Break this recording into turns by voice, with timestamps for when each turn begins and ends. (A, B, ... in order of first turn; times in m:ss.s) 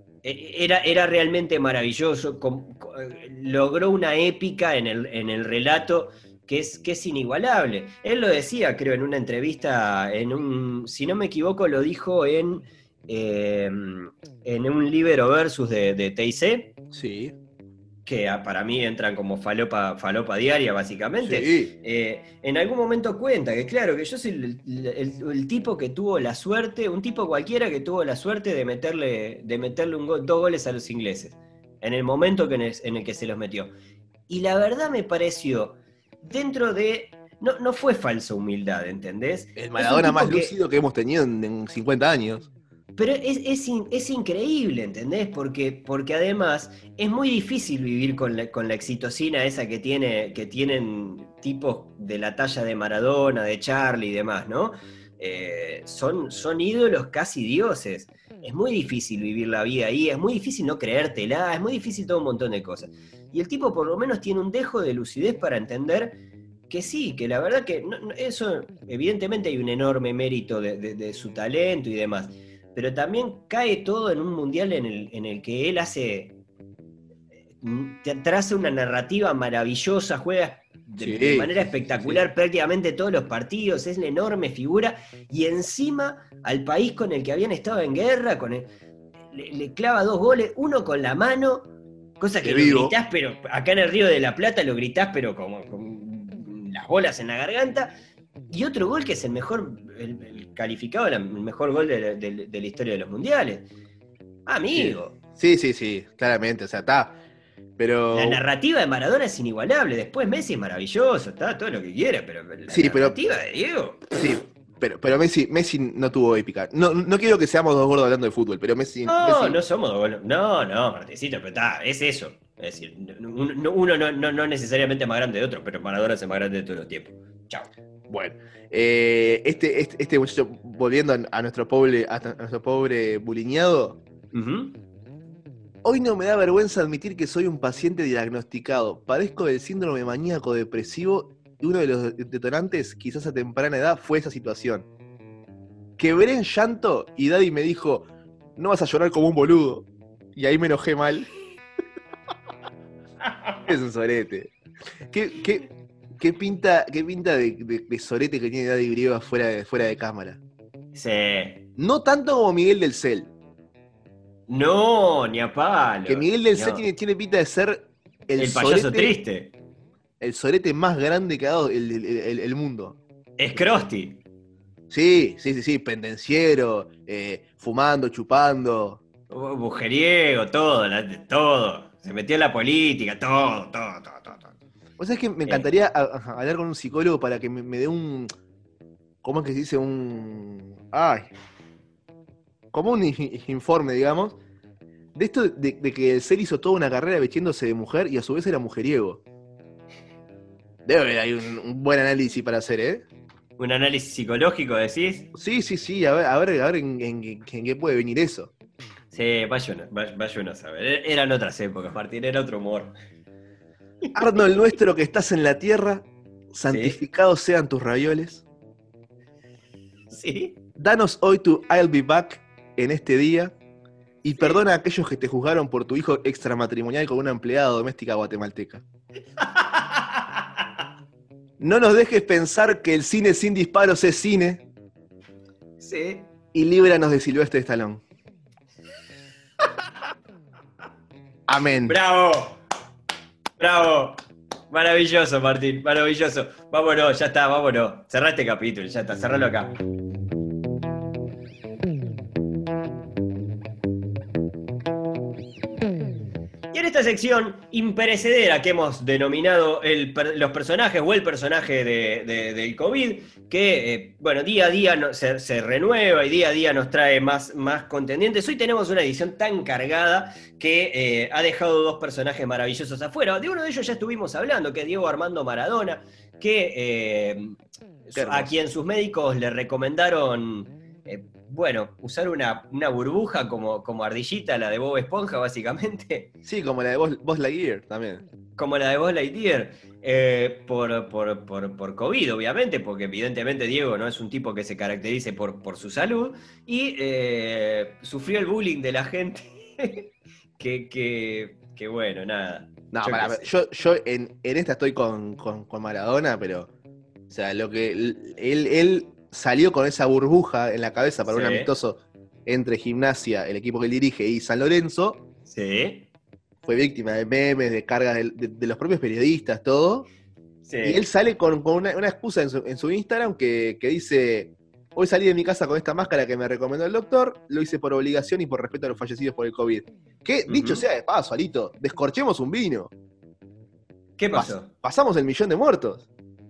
0:00.2-0:16.7 A
0:16.9-0:17.3 B
0:18.0-0:33.7 A
0:21.2-0:21.7 B
0:34.3-0:40.5 A
0:39.6-0:42.5 B
0:43.0-1:06.2 A
1:06.7-1:16.4 A
1:17.6-1:28.7 A
1:21.0-1:22.2 B
1:29.3-1:37.9 A
1:32.4-1:33.0 B
1:38.5-1:43.7 A
1:44.4-1:45.1 A
1:44.7-1:47.2 B
1:47.8-1:48.4 B
1:48.1-1:54.1 A
1:52.7-1:53.2 B
1:54.1-1:59.6 B
1:59.1-2:07.7 A
2:08.1-2:14.0 B
2:14.3-2:14.8 A
2:15.8-2:24.9 B
2:26.0-2:31.3 B
2:33.6-2:34.5 B
2:35.1-2:40.4 B
2:40.9-2:41.6 A
2:41.8-2:43.3 B
2:44.5-2:46.8 A
2:46.1-2:49.2 B
2:48.4-2:49.5 A
2:50.2-2:53.0 B
2:53.4-2:54.2 A
2:54.9-2:59.0 B
2:59.3-3:04.5 A
3:05.0-3:08.3 B
3:09.2-3:11.3 B
3:12.7-3:14.4 B
3:15.1-3:19.2 B
3:20.8-3:23.0 B
3:23.6-3:25.3 A
3:25.3-3:28.5 B
3:29.1-3:32.9 A
3:34.1-3:38.4 B
3:36.7-3:37.0 A
3:40.1-3:40.6 A
3:40.8-3:43.5 B
3:44.2-3:48.8 B
3:44.3-3:44.6 A
3:49.4-3:50.6 A
3:51.6-3:54.6 B
3:55.8-3:56.3 A
3:56.5-3:58.0 B
4:01.5-4:02.0 B
4:01.9-4:02.6 A
4:03.6-4:04.2 A
4:04.7-4:09.7 A
4:16.7-4:46.3 A
4:38.1-4:38.5 B
4:46.4-4:48.2 B
4:48.6-5:03.5 A
5:02.9-5:06.7 B
5:07.3-5:15.2 B
5:11.3-5:11.7 A
5:15.5-5:16.1 A
5:16.6-5:20.1 B
5:20.6-5:21.0 A
5:20.8-5:32.9 B
5:30.5-5:30.8 A
5:34.2-5:34.7 A
5:34.3-5:36.1 B